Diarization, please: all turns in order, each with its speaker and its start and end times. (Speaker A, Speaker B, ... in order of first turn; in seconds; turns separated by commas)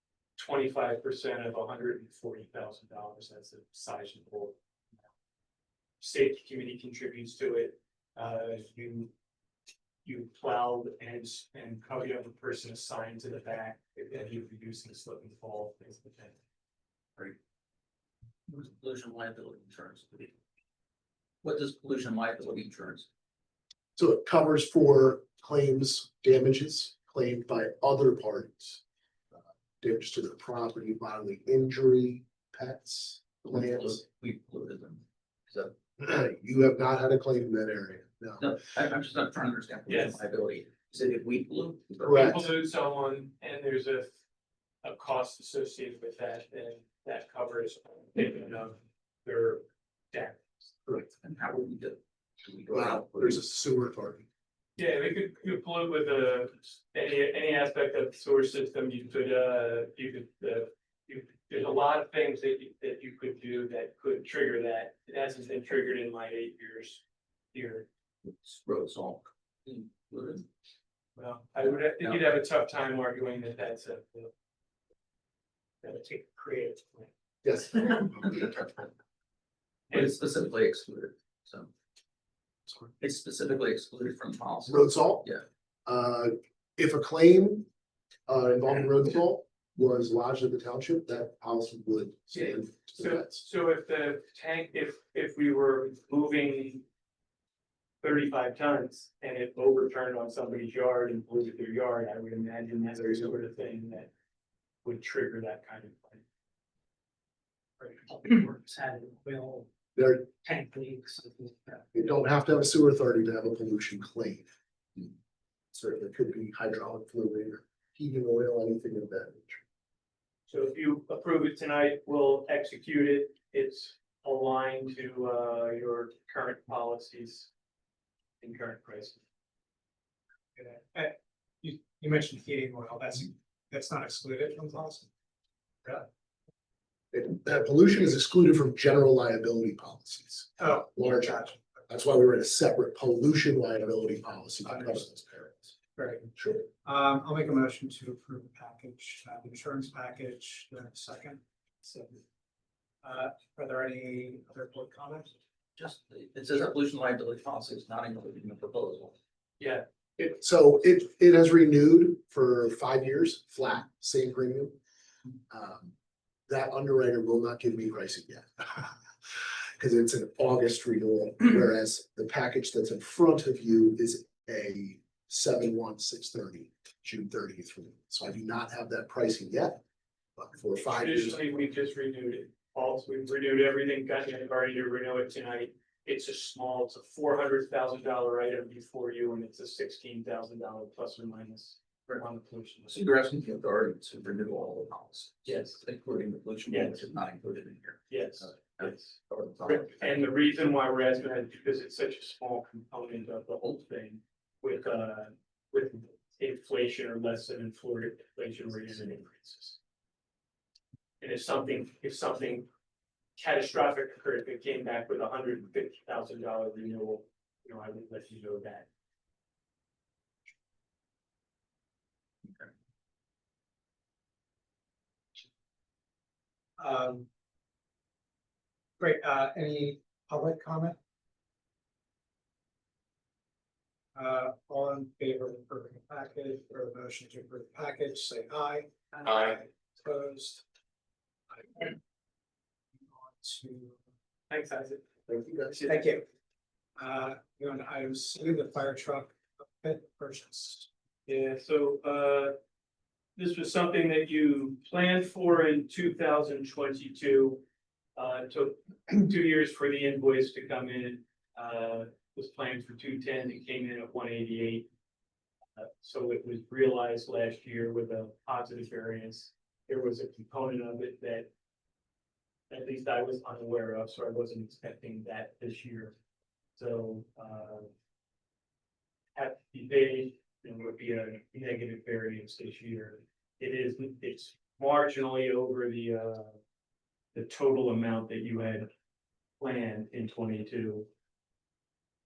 Speaker A: 0.4-4.6, Speaker A: 6.0-9.1, Speaker A: 10.1-16.4, Speaker B: 18.5-20.4, Speaker B: 21.4-23.1, Speaker C: 24.0-28.8, Speaker C: 29.3-34.0, Speaker B: 33.5-35.7, Speaker C: 36.0-38.5, Speaker B: 38.4-42.4, Speaker A: 39.9-40.2, Speaker C: 42.0-42.5, Speaker A: 42.1-44.1, Speaker A: 44.8-50.7, Speaker B: 51.2-53.4, Speaker C: 52.7-54.3, Speaker A: 54.8-67.9, Speaker B: 68.2-70.5, Speaker A: 71.2-74.3, Speaker B: 72.0-72.3, Speaker A: 75.8-77.1, Speaker C: 77.4-78.9, Speaker B: 79.9-81.7, Speaker B: 83.0-85.4, Speaker C: 84.7-85.3, Speaker C: 85.9-87.7, Speaker C: 88.3-93.4, Speaker A: 92.3-96.8, Speaker A: 98.0-104.1, Speaker C: 103.0-103.3, Speaker A: 104.8-106.2, Speaker D: 108.1-109.6, Speaker C: 110.0-110.3, Speaker D: 110.4-111.8, Speaker C: 111.9-114.5, Speaker C: 115.7-119.6, Speaker A: 120.5-127.5, Speaker A: 128.4-129.2, Speaker E: 130.6-135.1, Speaker C: 137.1-145.8, Speaker E: 140.6-141.6, Speaker E: 146.0-152.2, Speaker C: 146.4-146.7, Speaker E: 153.0-155.3, Speaker B: 155.8-159.2, Speaker A: 159.6-159.9, Speaker C: 160.2-164.8, Speaker C: 165.5-165.9, Speaker C: 166.5-179.8, Speaker C: 180.4-181.4, Speaker A: 180.9-193.0, Speaker B: 192.9-200.2, Speaker A: 195.4-195.8, Speaker A: 196.7-197.1, Speaker A: 198.1-209.8, Speaker A: 211.2-212.7, Speaker A: 213.4-218.9, Speaker E: 226.8-227.3, Speaker E: 229.0-231.0, Speaker E: 234.2-240.6, Speaker E: 241.5-242.0, Speaker E: 243.1-244.0, Speaker A: 244.5-245.0, Speaker C: 245.3-245.8, Speaker A: 245.7-246.1, Speaker E: 245.9-246.2, Speaker E: 247.0-250.9, Speaker A: 251.3-252.6, Speaker A: 253.4-257.6, Speaker A: 258.2-264.9, Speaker A: 265.8-271.5, Speaker A: 272.7-276.1, Speaker A: 276.8-277.9, Speaker A: 279.4-286.6, Speaker A: 287.3-288.9, Speaker A: 289.6-291.1